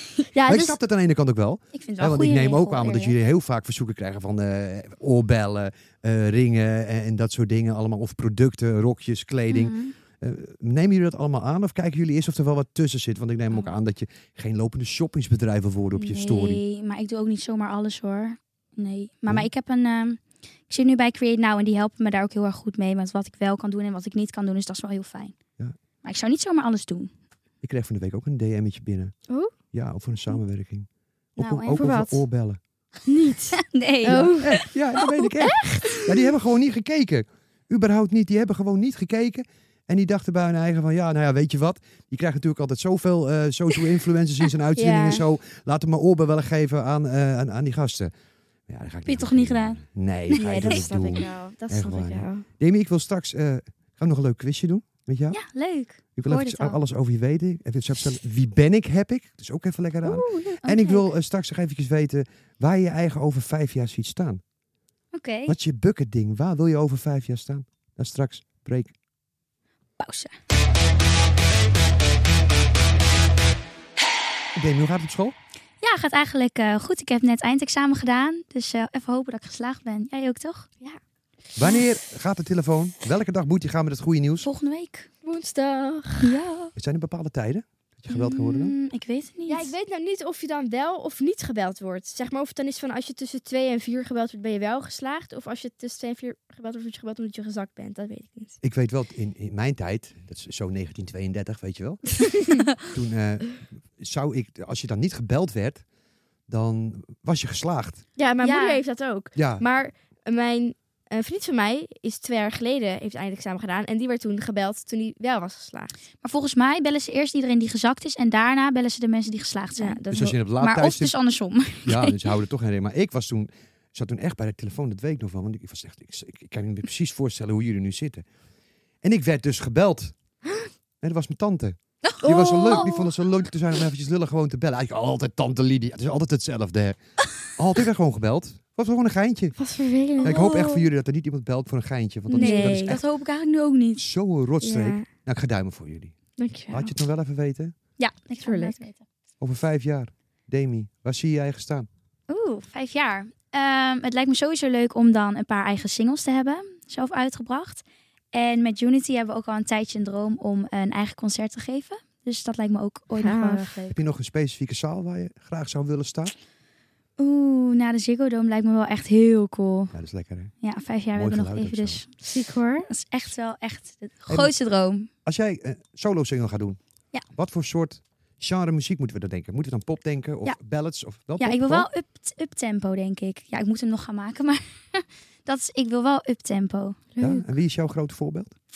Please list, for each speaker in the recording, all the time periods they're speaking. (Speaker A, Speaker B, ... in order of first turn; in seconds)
Speaker A: 0.3-0.8, 31.8-32.2, 33.0-34.6, 35.4-36.1, 44.8-45.2, 50.3-52.5, 60.0-60.6, 85.2-86.3, 89.5-98.6, 108.2-115.9, 119.8-120.4, 132.2-133.1, 139.6-140.8, 142.3-143.0, 144.6-145.1, 146.4-146.9, 148.4-148.8, 163.2-163.8, 172.2-172.9, 187.1-187.5
Speaker B: 0.5-16.6, 27.6-29.1, 29.7-32.6, 34.1-48.1, 48.7-55.4, 56.1-64.4, 65.5-68.9, 74.5-75.3, 81.5-84.5, 86.7-88.7, 98.6-102.2, 102.8-105.8, 106.5-108.0, 109.3-109.6, 120.1-121.1, 121.8-128.2, 129.0-130.1, 131.0-137.0, 137.5-139.5, 140.2-143.0, 144.0-146.1, 146.7-147.7, 149.4-151.9, 163.9-166.3, 169.9-170.5, 171.1-172.0, 174.3-174.5, 175.2-176.8, 177.3-181.9, 187.2-188.5
Speaker C: 1.7-3.1, 9.5-9.9, 15.9-25.3, 26.0-27.1, 31.4-31.9, 33.5-34.7, 49.0-50.8, 55.3-56.8, 60.6-61.0, 65.1-65.5, 70.0-70.3, 75.8-80.7, 84.4-85.1, 86.2-86.7, 88.1-89.7, 108.4-108.8, 116.2-120.0, 120.6-122.2, 140.2-140.8, 142.3-144.0, 148.0-149.0, 152.3-164.0, 167.2-169.9, 170.6-172.1, 172.9-175.1, 181.4-187.0